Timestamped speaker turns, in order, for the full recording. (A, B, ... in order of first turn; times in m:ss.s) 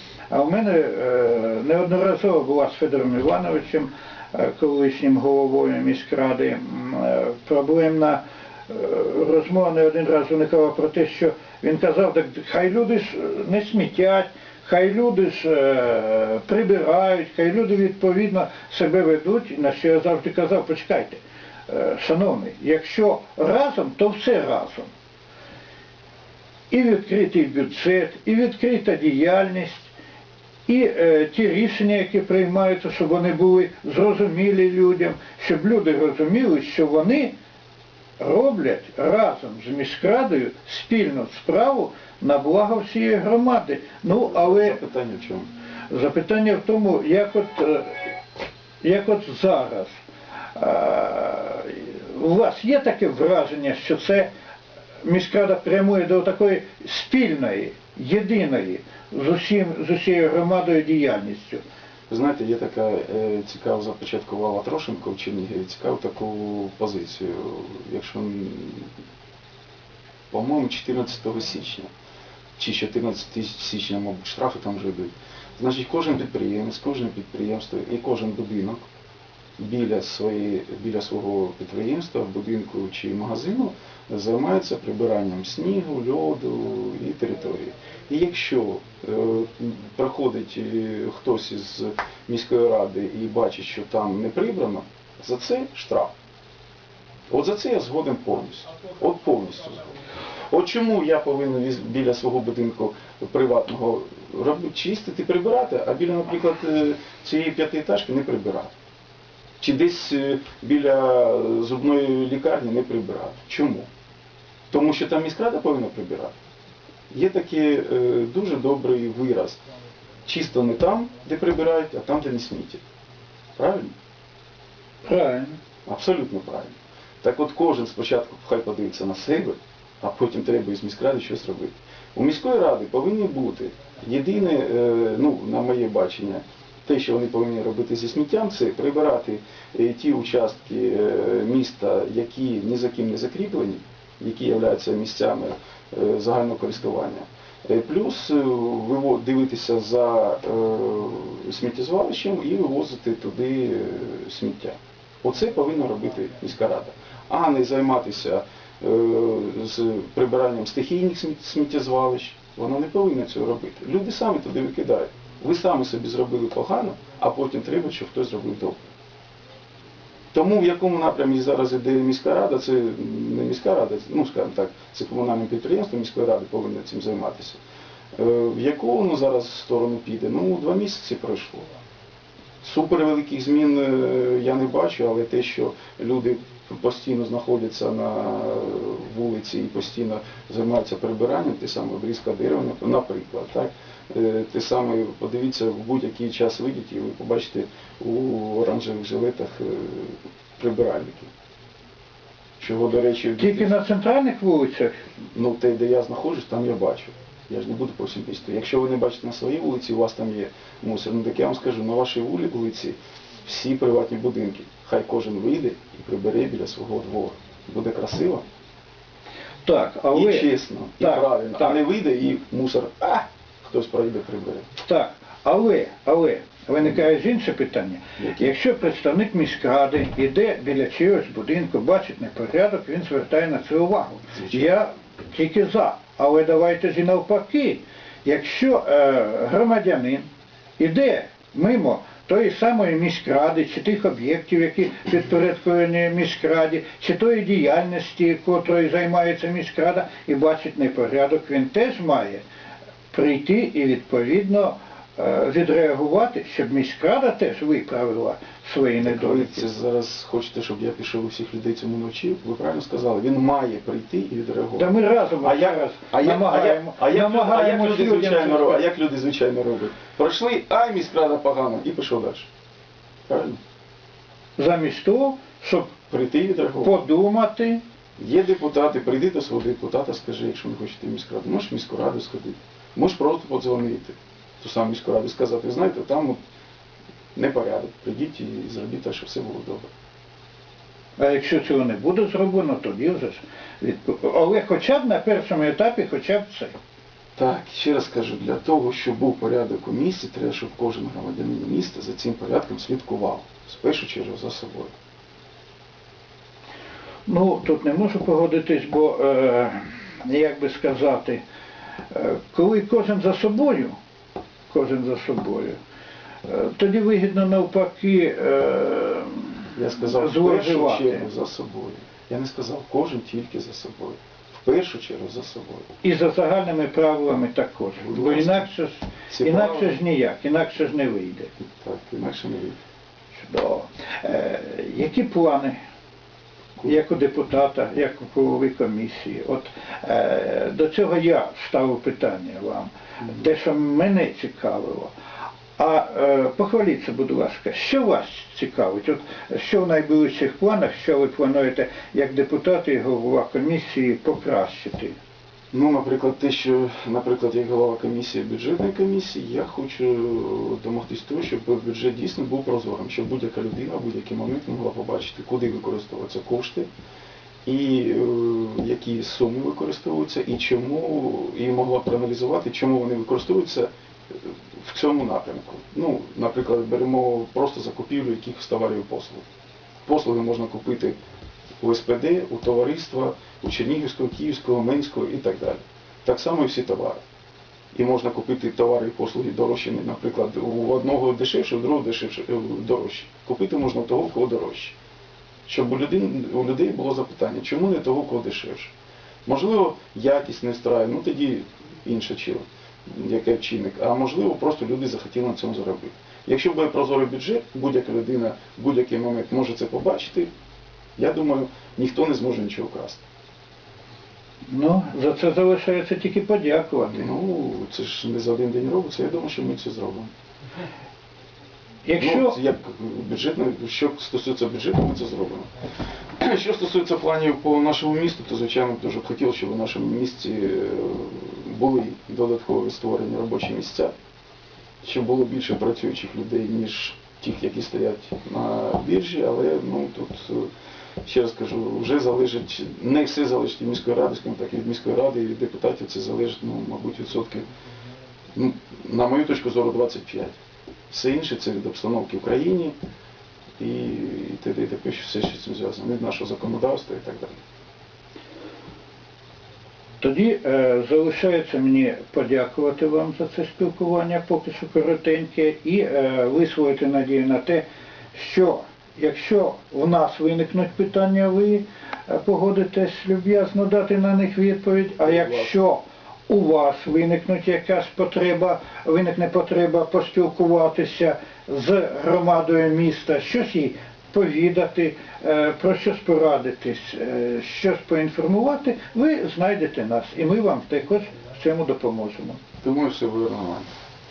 0:00.3-0:24.9 A
0:26.7-0:29.9 A
0:30.7-0:37.3 A
0:38.2-0:44.8 A
0:44.1-0:45.5 B
0:45.9-0:48.1 A
0:48.8-0:49.9 A
0:50.6-0:54.3 A
0:55.0-1:01.6 A
1:02.1-1:08.9 B
1:10.3-1:11.9 B
1:12.6-1:18.8 B
1:19.6-1:36.1 B
1:37.3-1:48.7 B
1:49.6-1:53.9 B
1:54.7-1:56.4 B
1:57.1-1:59.6 B
2:00.3-2:02.8 B
2:03.6-2:03.9 B
2:05.0-2:05.6 A
2:05.9-2:48.9 B
2:50.3-2:57.6 B
2:58.2-3:01.6 B
3:02.6-3:21.3 B
3:22.6-3:23.8 B
3:23.4-3:25.0 A
3:25.3-3:38.4 B
3:39.6-3:40.5 A
3:40.1-3:44.7 B
3:41.0-3:41.8 A
3:44.8-4:00.3 A
3:48.2-3:48.5 B
3:54.3-3:54.7 B
4:00.8-4:12.4 A
4:13.1-4:19.7 A
4:19.0-4:24.9 B
4:24.8-4:28.8 A
4:25.4-4:32.5 B
4:33.3-4:33.6 B
4:34.6-4:35.9 A
4:36.1-4:36.9 B
4:36.8-4:37.8 A
4:38.2-4:46.4 B
4:47.4-4:49.9 B
4:51.2-4:56.8 A
4:57.4-5:04.9 B
5:07.3-5:11.4 A
5:12.1-5:14.0 A
5:14.7-5:15.8 A
5:16.4-5:21.3 A
5:19.8-5:25.9 B
5:26.0-5:31.5 A
5:28.0-5:28.7 B
5:29.3-5:30.0 B
5:31.6-5:32.8 B
5:33.4-5:35.8 A
5:36.8-5:45.1 A
5:45.8-5:55.2 A
5:55.7-6:06.9 B
6:07.6-6:19.5 B
6:20.0-6:21.2 B
6:21.8-6:27.2 B
6:27.9-6:35.0 B
6:35.7-6:38.9 B
6:39.5-6:50.5 B
6:51.2-6:53.2 B
6:54.7-6:57.2 A
6:57.0-7:00.3 B
7:02.1-7:02.6 A
7:02.2-7:05.7 B
7:06.4-7:14.1 B
7:15.0-7:20.7 B
7:21.2-7:27.7 B
7:28.6-7:30.6 B
7:31.1-7:33.0 B
7:33.8-7:37.6 B
7:40.2-8:12.6 A
7:55.2-7:55.7 B
8:12.8-8:13.9 B